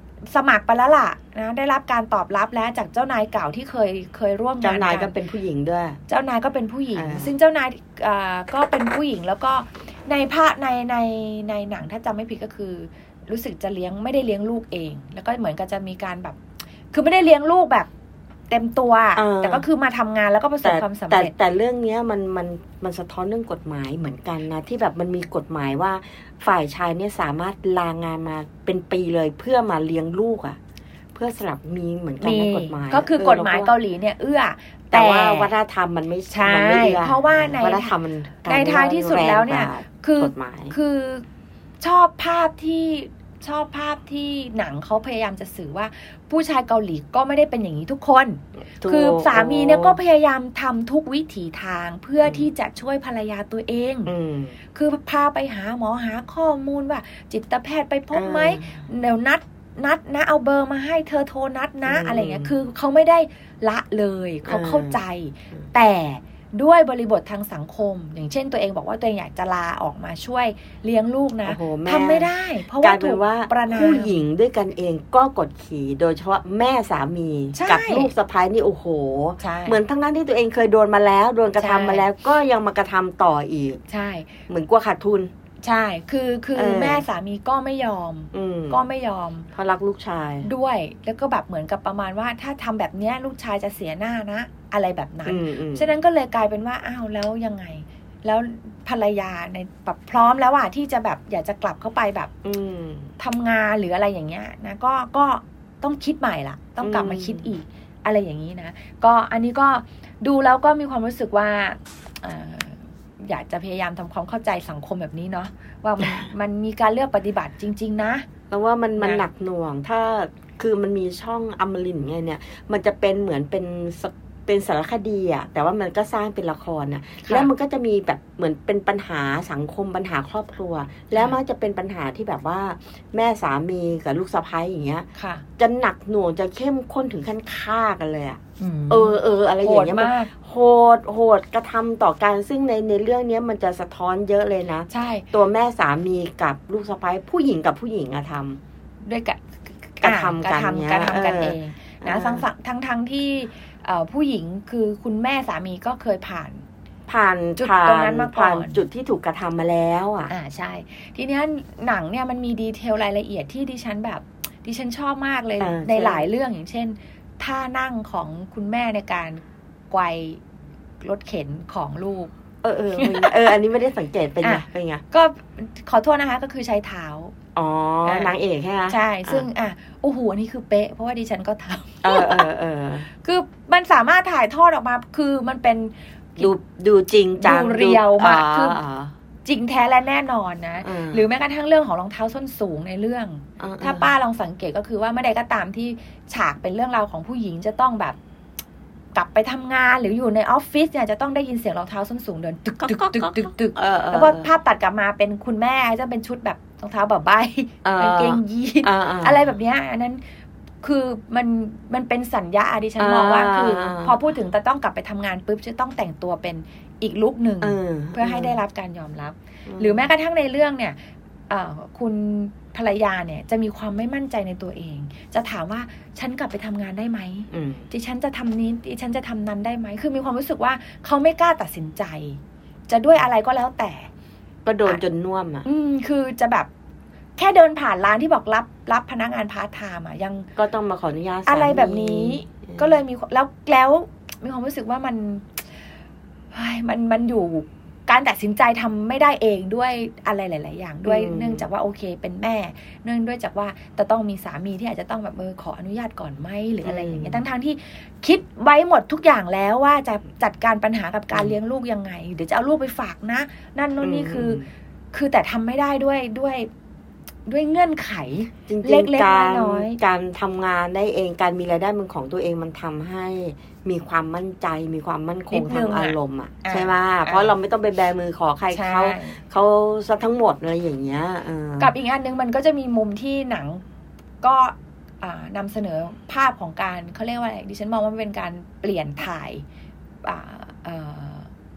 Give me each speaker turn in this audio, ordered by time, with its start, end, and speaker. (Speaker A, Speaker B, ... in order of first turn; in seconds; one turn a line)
Speaker A: 0.3-5.2
Speaker B: 4.6-6.0
Speaker A: 6.1-16.4
Speaker B: 6.9-7.3
Speaker A: 16.9-17.9
Speaker A: 18.5-21.3
Speaker B: 19.1-19.7
Speaker B: 20.6-30.6
Speaker B: 31.1-33.7
Speaker A: 32.2-35.5
Speaker B: 34.9-40.7
Speaker A: 36.3-37.9
Speaker A: 38.4-41.2
Speaker A: 41.8-54.1
Speaker B: 48.8-50.0
Speaker B: 52.2-52.5
Speaker B: 54.0-54.6
Speaker A: 54.7-74.2
Speaker B: 58.1-58.9
Speaker B: 61.9-62.6
Speaker B: 64.4-65.0
Speaker B: 71.4-83.8
Speaker A: 77.5-78.1
Speaker A: 79.4-79.8
Speaker A: 81.6-82.0
Speaker A: 83.9-84.3
Speaker B: 84.5-85.3
Speaker A: 85.6-89.5
Speaker B: 86.5-87.0
Speaker B: 88.3-88.8
Speaker B: 89.5-90.5
Speaker A: 90.4-102.3
Speaker B: 95.2-95.9
Speaker B: 102.4-103.1
Speaker A: 103.2-118.2
Speaker B: 106.8-107.5
Speaker B: 116.0-116.3
Speaker B: 118.5-135.1
Speaker A: 119.0-119.2
Speaker A: 127.2-127.5
Speaker A: 131.1-131.4
Speaker A: 135.1-135.4
Speaker B: 135.6-148.6
Speaker A: 138.6-140.3
Speaker A: 144.9-145.3
Speaker A: 149.0-156.6
Speaker B: 150.0-152.4
Speaker B: 157.1-160.3
Speaker A: 157.6-158.8
Speaker A: 160.3-170.4
Speaker B: 165.6-166.3
Speaker A: 171.0-172.3
Speaker B: 172.6-175.0
Speaker A: 172.9-173.4
Speaker A: 174.4-177.3
Speaker B: 177.5-179.5
Speaker A: 178.0-178.3
Speaker A: 178.9-182.5
Speaker B: 182.0-183.1
Speaker A: 183.2-186.5
Speaker B: 186.4-189.1
Speaker A: 187.4-188.8
Speaker A: 189.4-198.2
Speaker B: 190.8-191.2
Speaker B: 193.6-194.1
Speaker A: 199.1-210.2
Speaker B: 202.8-204.5
Speaker B: 207.8-209.4
Speaker A: 210.8-220.9
Speaker B: 213.0-214.2
Speaker B: 217.6-218.6
Speaker B: 219.7-220.1
Speaker A: 221.5-234.1
Speaker B: 227.5-227.9
Speaker B: 234.6-235.7
Speaker A: 235.6-236.7
Speaker A: 237.3-240.5
Speaker B: 240.6-243.0
Speaker A: 241.4-245.6
Speaker A: 246.5-266.7
Speaker B: 251.0-251.7
Speaker B: 256.8-257.4
Speaker B: 264.0-264.7
Speaker A: 267.4-270.0
Speaker B: 268.7-281.9
Speaker A: 275.5-277.5
Speaker A: 278.7-279.4
Speaker A: 281.8-283.8
Speaker A: 284.4-289.6
Speaker A: 290.2-291.5